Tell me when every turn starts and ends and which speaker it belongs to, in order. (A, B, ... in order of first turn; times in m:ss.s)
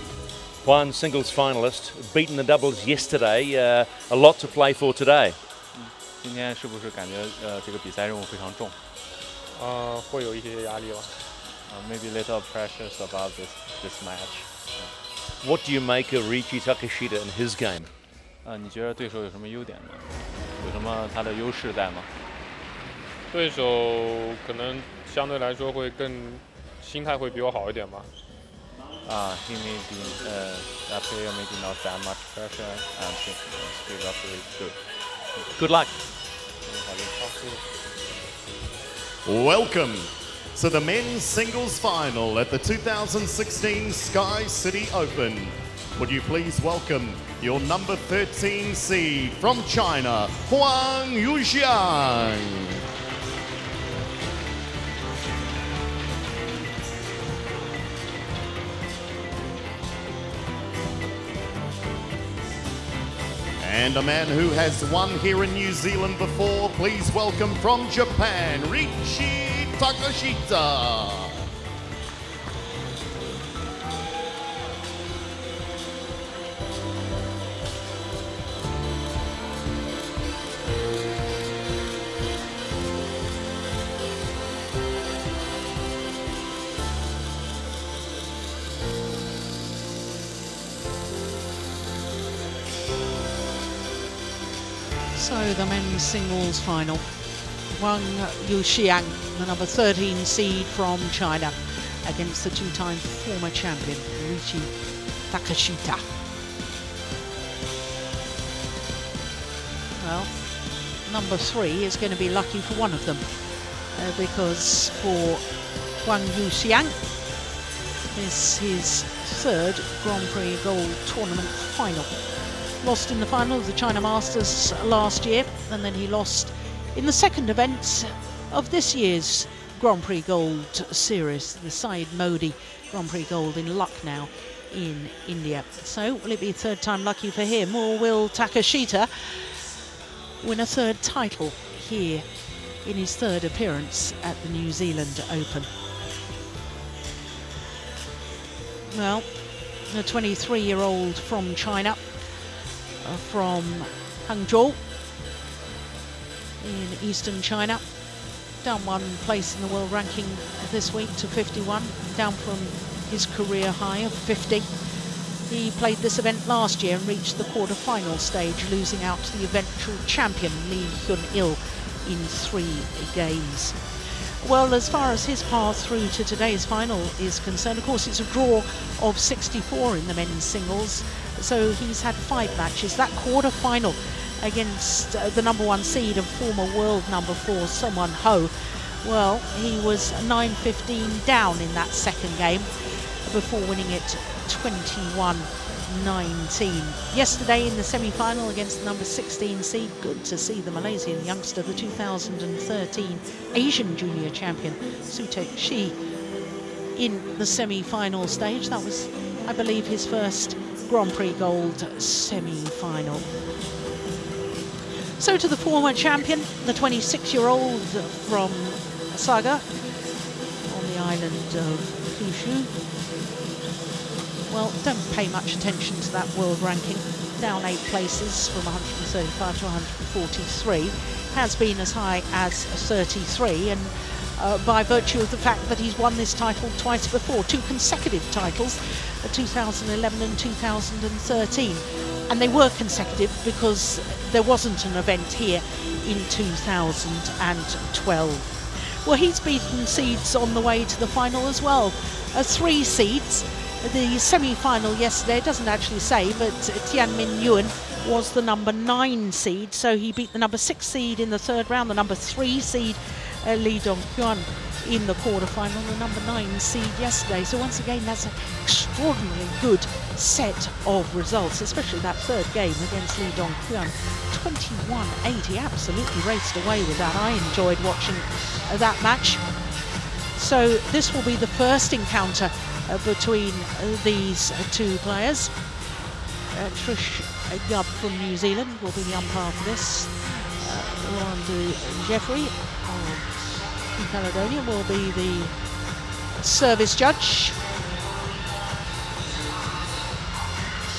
0:00.6-0:05.4 A
0:05.7-0:08.8 B
0:09.6-0:11.1 C
0:11.7-0:14.9 B
0:15.4-0:17.9 A
0:18.4-0:22.1 B
0:23.3-0:28.1 C
0:29.0-0:35.5 B
0:35.6-0:35.9 A
0:36.6-0:37.6 B
0:39.3-0:52.8 D
1:03.6-1:11.4 D
1:35.1-1:46.1 E
1:50.0-1:57.0 E
1:58.1-2:19.7 E
2:20.4-2:25.7 E
2:28.9-2:34.8 E
2:36.6-3:26.0 E
3:27.0-3:33.3 E
3:35.2-3:42.8 E
3:44.5-4:45.9 E
4:46.5-4:57.6 E